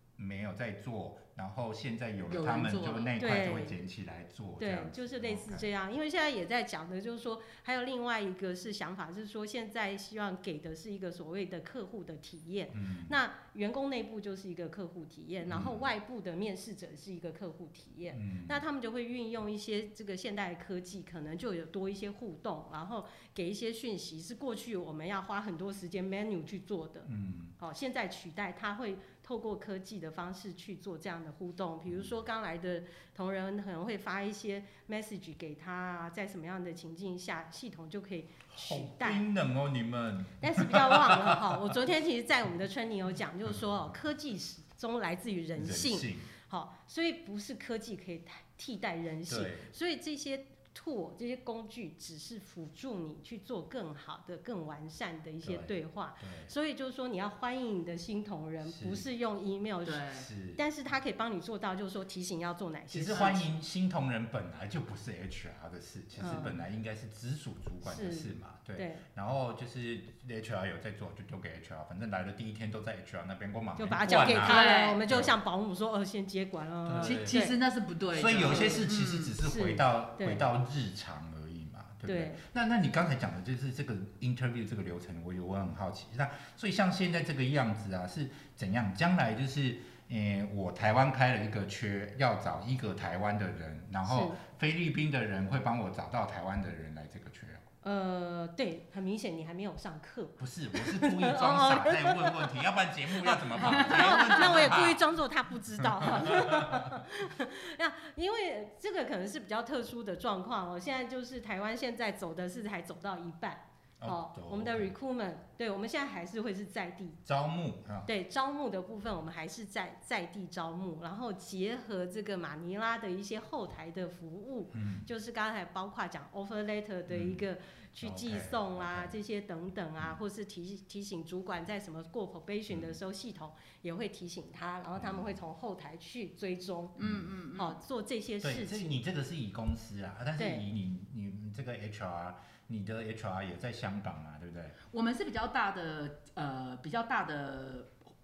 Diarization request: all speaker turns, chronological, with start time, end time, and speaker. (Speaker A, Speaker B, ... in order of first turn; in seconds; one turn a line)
Speaker A: 0.2-5.7
Speaker B: 2.3-3.1
Speaker C: 3.2-3.8
Speaker C: 4.6-39.2
Speaker A: 12.7-13.2
Speaker A: 15.5-15.9
Speaker A: 18.1-18.6
Speaker A: 27.1-27.6
Speaker A: 38.5-41.8
Speaker C: 40.4-63.4
Speaker A: 45.6-46.3
Speaker A: 49.3-49.7
Speaker A: 55.4-56.5
Speaker A: 58.6-59.1
Speaker B: 59.9-60.3
Speaker A: 60.1-60.6
Speaker A: 62.9-75.3
Speaker B: 63.1-63.4
Speaker C: 66.2-66.6
Speaker C: 67.8-69.0
Speaker C: 73.8-77.6
Speaker B: 74.5-75.0
Speaker A: 76.8-77.4
Speaker B: 77.0-79.3
Speaker A: 78.1-97.7
Speaker C: 79.4-80.4
Speaker C: 82.1-82.4
Speaker C: 94.0-94.4
Speaker C: 97.8-102.5
Speaker A: 100.4-105.0
Speaker C: 103.5-117.2
Speaker B: 103.6-104.5
Speaker A: 105.8-107.0
Speaker A: 114.0-114.9
Speaker A: 117.2-118.1
Speaker C: 118.1-137.0
Speaker A: 124.7-125.1
Speaker A: 127.1-127.4
Speaker A: 128.0-129.2
Speaker A: 132.7-133.0
Speaker A: 135.0-135.4
Speaker B: 137.0-137.8
Speaker A: 137.0-137.3
Speaker C: 137.5-138.9
Speaker A: 138.4-144.8
Speaker C: 140.4-140.7
Speaker B: 144.9-148.0